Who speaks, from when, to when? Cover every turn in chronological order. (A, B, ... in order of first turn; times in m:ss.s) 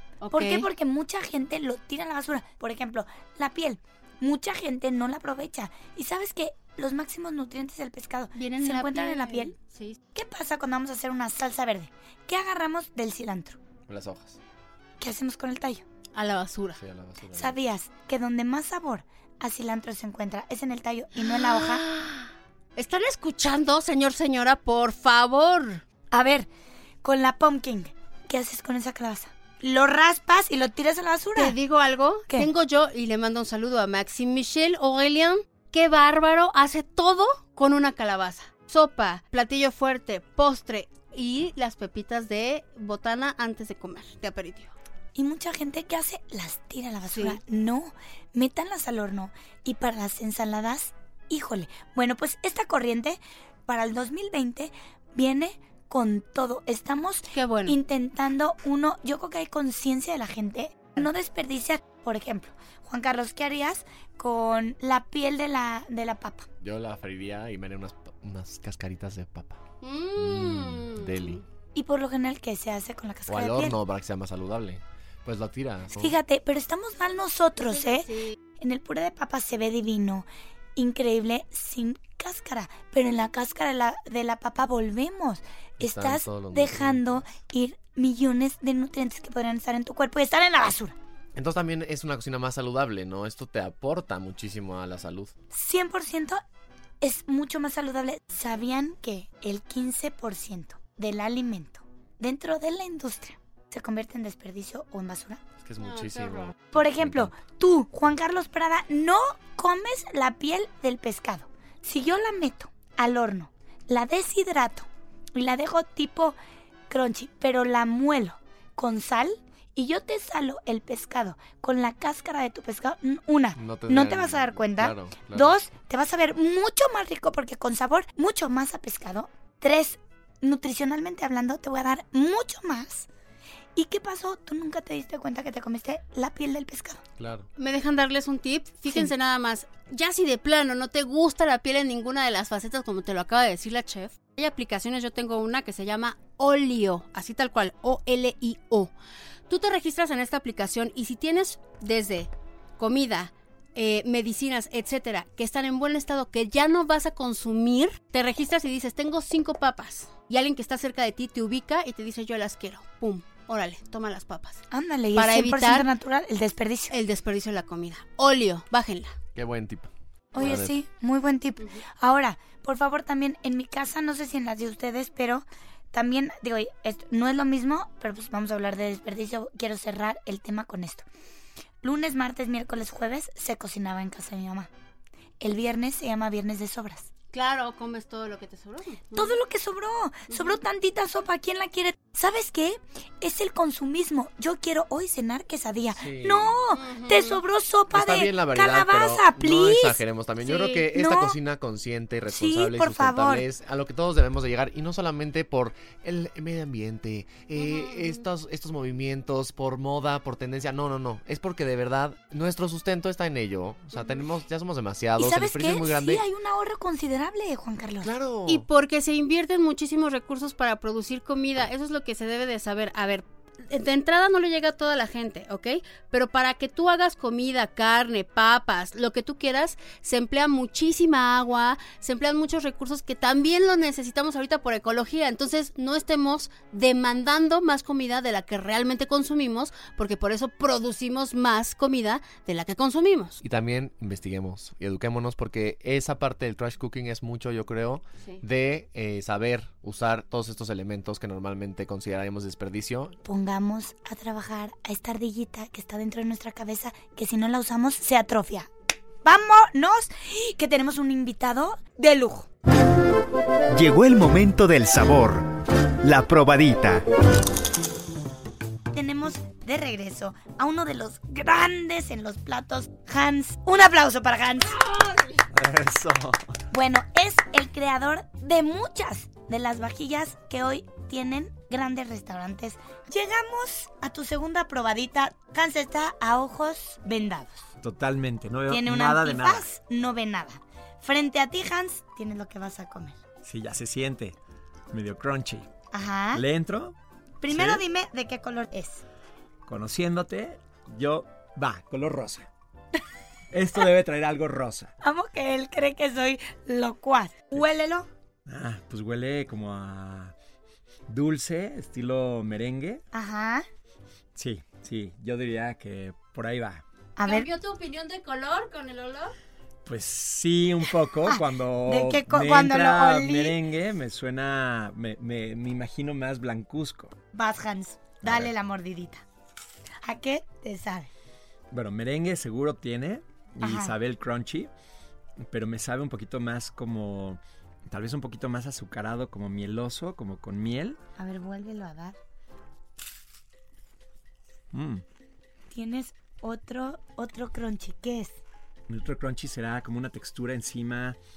0:00.2-0:00.7 A
0:00.3-0:09.5 B
0:08.3-0:10.0 A
0:10.1-0:13.6 B
0:13.9-0:14.4 C
0:15.0-0:15.8 B
0:16.1-0:16.8 A
0:16.8-0:17.6 C
0:17.3-0:21.8 B
0:21.6-0:22.2 A
0:22.8-0:25.8 A
0:26.1-0:26.5 B
0:27.0-0:31.6 B
0:31.4-0:44.7 A
0:45.1-1:06.5 B
0:47.1-0:47.4 A
0:57.3-0:57.8 A
1:06.6-1:09.6 C
1:09.8-1:11.4 A
1:10.2-1:11.4 C
1:11.7-1:13.8 B
1:13.3-1:16.2 C
1:16.0-1:18.1 B
1:17.6-1:18.4 A
1:18.6-1:31.0 B
1:25.8-1:27.3 C
1:31.3-1:35.3 C
1:35.5-1:36.4 B
1:37.0-1:45.4 B
1:45.6-1:47.3 C
1:45.8-1:46.5 A
1:46.7-1:56.4 B
1:56.9-2:13.1 B
2:03.5-2:05.5 C
2:13.8-2:17.0 B
2:17.2-2:17.5 C
2:17.6-2:28.9 A
2:29.5-2:44.6 A
2:44.7-2:46.9 B
2:45.1-2:45.9 A
2:46.9-2:49.2 A
2:49.3-2:50.8 C
2:50.3-3:01.0 B
3:01.8-3:04.7 B
3:05.4-3:07.1 B
3:07.3-3:09.4 A
3:09.1-3:20.0 B
3:10.3-3:10.6 A
3:16.0-3:16.6 C
3:16.7-3:17.4 A
3:17.9-3:36.2 C
3:20.4-3:20.8 A
3:20.9-3:21.4 B
3:22.3-3:23.4 B
3:27.6-3:28.2 A
3:35.2-3:38.1 B
3:38.0-3:38.6 C
3:38.5-4:03.4 A
4:03.4-4:13.2 C
4:13.2-4:18.7 B
4:19.2-4:22.5 B
4:23.7-4:25.5 D
4:26.0-4:27.0 D
4:28.9-4:34.8 B
4:34.9-4:35.2 A
4:35.5-4:36.6 E
4:36.7-4:47.7 B
4:47.8-4:49.7 E
4:48.7-4:53.2 B
4:53.4-4:54.4 E
4:54.9-4:55.7 E
4:55.9-4:56.4 B
4:56.3-4:56.9 E
4:57.4-4:59.0 B
4:57.5-4:57.8 E
4:59.6-5:02.5 E
5:03.5-5:04.9 E
5:05.0-5:08.1 B
5:08.5-5:10.3 E
5:11.1-5:13.0 E
5:13.1-5:13.6 B
5:14.3-5:16.8 E
5:17.2-5:17.5 B
5:17.2-5:19.3 A
5:19.8-5:27.1 E
5:21.2-5:23.6 B
5:27.3-5:29.2 B
5:28.2-5:28.5 E
5:30.0-5:31.1 B
5:31.7-5:34.7 E
5:33.6-5:33.9 B
5:35.4-5:41.0 E
5:41.2-5:42.2 B
5:44.7-5:45.0 E
5:45.7-5:48.4 B
5:48.9-5:51.2 E